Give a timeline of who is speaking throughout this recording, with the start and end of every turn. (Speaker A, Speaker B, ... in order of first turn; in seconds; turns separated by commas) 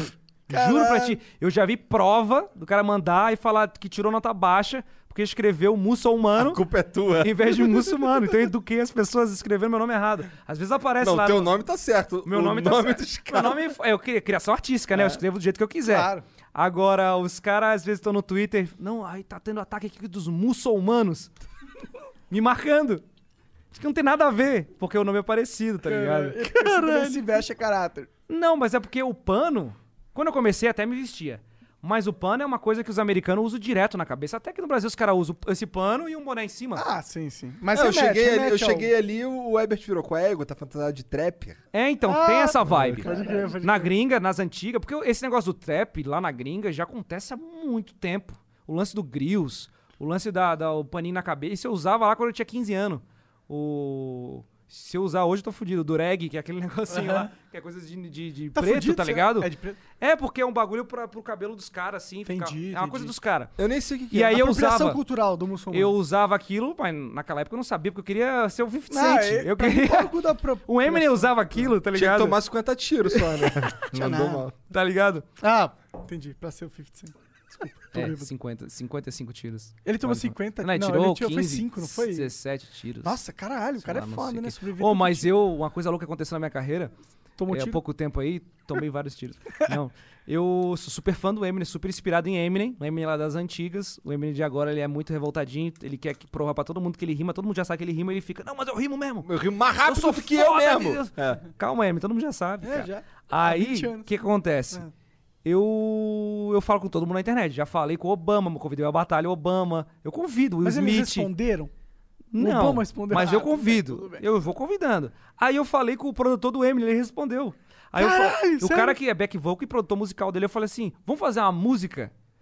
Speaker A: 0.5-6.6, Speaker B: 0.5-1.2, Speaker C: 6.3-8.1, Speaker A: 7.2-11.5, Speaker C: 11.0-13.6, Speaker A: 12.2-21.3, Speaker B: 15.9-16.2, Speaker A: 22.3-23.0, Speaker A: 23.7-27.4, Speaker B: 25.9-28.1, Speaker A: 28.3-36.8, Speaker B: 36.8-38.9, Speaker C: 37.7-41.6, Speaker A: 41.7-43.1, Speaker B: 42.1-43.9, Speaker A: 43.6-63.5, Speaker B: 56.9-57.3, Speaker B: 58.5-59.8, Speaker B: 62.2-63.1, Speaker C: 63.6-64.4, Speaker A: 64.1-65.0, Speaker B: 64.3-65.9, Speaker A: 65.7-72.4, Speaker B: 68.9-71.7, Speaker C: 71.9-74.5, Speaker A: 73.2-73.5, Speaker B: 73.9-74.4, Speaker A: 74.7-75.2, Speaker B: 75.4-78.3, Speaker A: 77.9-83.2, Speaker B: 79.8-82.3, Speaker B: 83.0-85.3, Speaker A: 83.8-86.9, Speaker B: 87.4-87.8, Speaker A: 87.5-99.3, Speaker C: 99.2-101.4, Speaker A: 99.8-104.8, Speaker B: 102.6-104.1, Speaker A: 105.4-111.3, Speaker B: 110.6-111.7, Speaker A: 112.3-122.1, Speaker B: 112.3-114.2, Speaker B: 118.0-119.0